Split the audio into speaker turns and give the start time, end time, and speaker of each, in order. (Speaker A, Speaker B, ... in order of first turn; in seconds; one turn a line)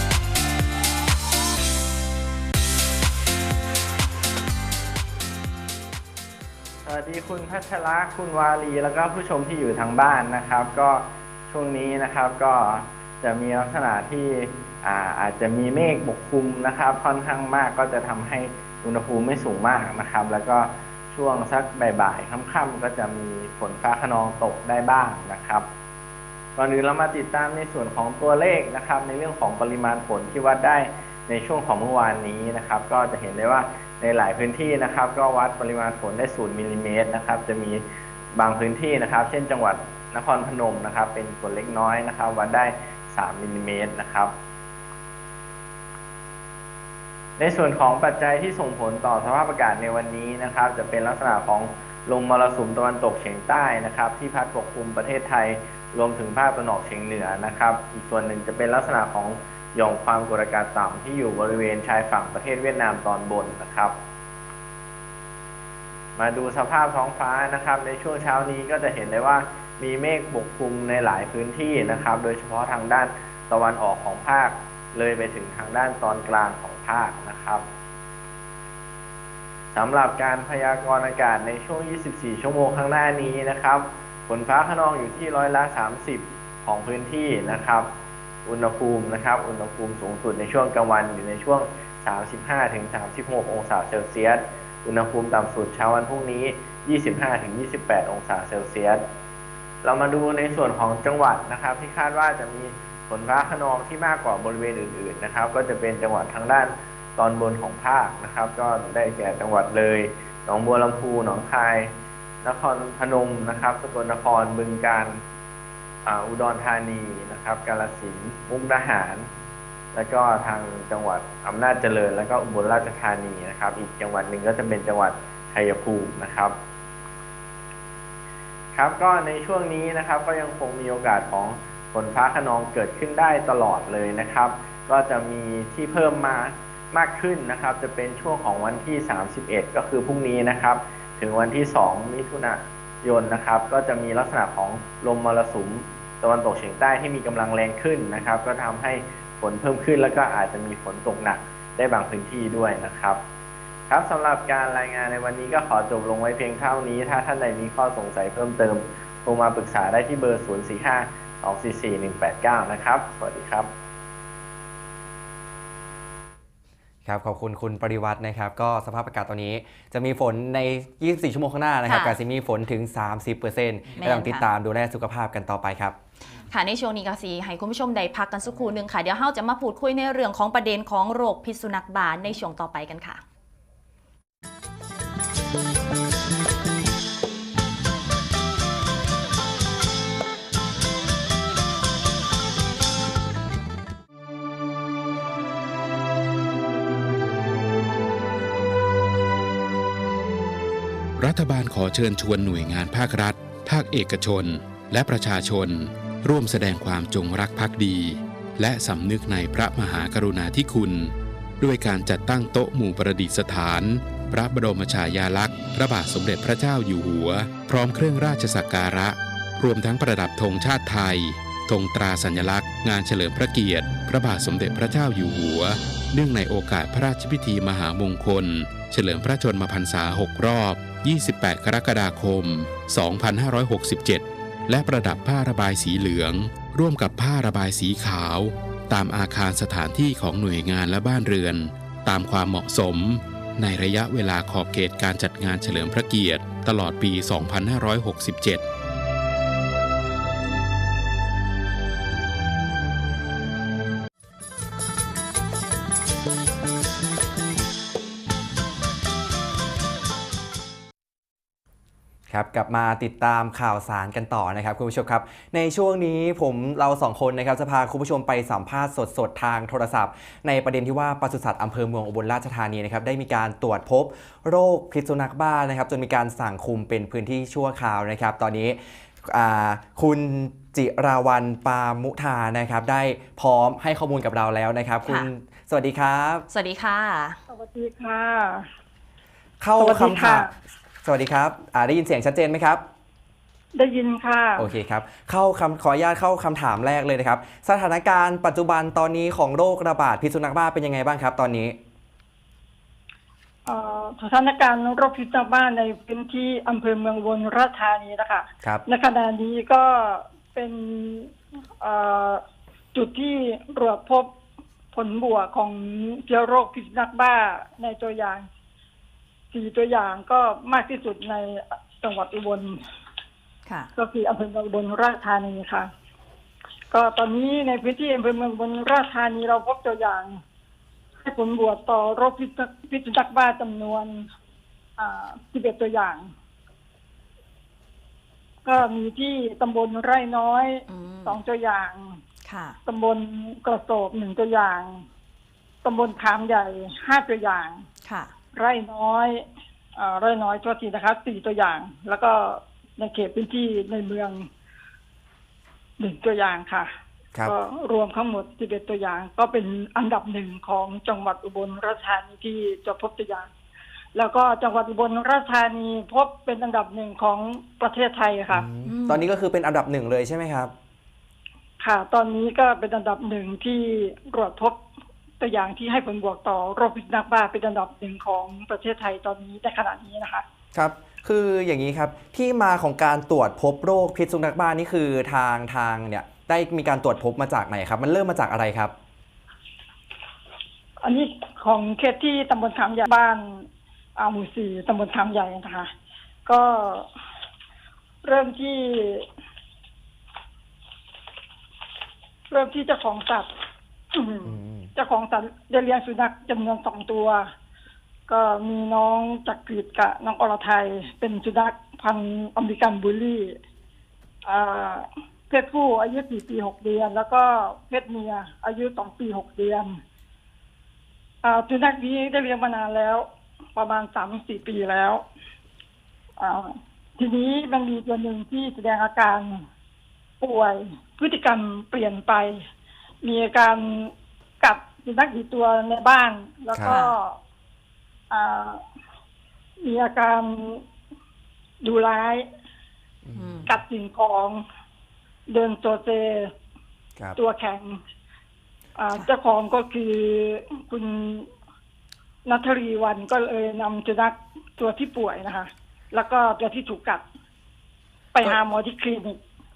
Speaker A: 6.8-25.7
Speaker A: 26.6-37.8
Speaker A: 38.3-44.3
Speaker A: 47.4-64.0
Speaker A: 66.2-77.7
Speaker A: 79.7-87.9
Speaker A: 88.5-99.0
Speaker A: 99.8-115.2
Speaker A: 116.0-119.3
Speaker A: 119.9-126.6
Speaker A: 128.7-153.2
Speaker A: 153.9-163.7
Speaker B: 167.1-176.0
Speaker C: 171.9-172.2
Speaker C: 174.0-174.4
Speaker C: 176.4-183.2
Speaker D: 201.2-248.6
Speaker B: 262.3-286.4
Speaker C: 286.5-287.4
Speaker E: 287.5-288.7
Speaker B: 289.6-290.5
Speaker E: 289.8-290.5
Speaker B: 291.0-292.8
Speaker E: 293.7-294.7
Speaker B: 294.6-301.8
Speaker E: 303.7-312.4
Speaker E: 312.9-314.3
Speaker E: 314.9-318.5
Speaker E: 319.5-322.8
Speaker E: 324.0-325.9
Speaker E: 326.9-330.4
Speaker E: 331.2-334.3
Speaker E: 335.0-336.3
Speaker E: 338.6-342.2
Speaker C: 340.9-341.4
Speaker C: 342.4-342.8
Speaker E: 342.9-345.1
Speaker E: 345.8-347.9
Speaker C: 348.0-348.3
Speaker E: 348.5-354.5
Speaker E: 356.0-356.9
Speaker E: 357.4-363.5
Speaker E: 364.1-368.7
Speaker B: 368.5-370.7
Speaker C: 368.9-369.3
Speaker E: 371.8-374.8
Speaker E: 375.4-380.4
Speaker B: 380.7-388.9
Speaker E: 391.0-393.7
Speaker E: 394.2-395.9
Speaker E: 396.5-397.1
Speaker E: 398.2-399.3
Speaker E: 402.5-403.5
Speaker E: 404.1-407.5
Speaker B: 404.4-404.9
Speaker E: 408.3-413.6
Speaker E: 414.5-420.0
Speaker E: 421.4-425.2
Speaker E: 426.4-429.7
Speaker E: 430.4-432.6
Speaker E: 433.2-437.4
Speaker B: 436.7-437.0
Speaker C: 436.9-437.1
Speaker E: 438.3-438.8
Speaker E: 439.8-440.8
Speaker E: 441.8-442.5
Speaker B: 443.3-443.7
Speaker C: 443.4-443.7
Speaker E: 443.7-444.6
Speaker E: 445.5-446.5
Speaker E: 447.4-448.0
Speaker E: 449.0-451.5
Speaker E: 452.4-457.2
Speaker E: 458.4-459.4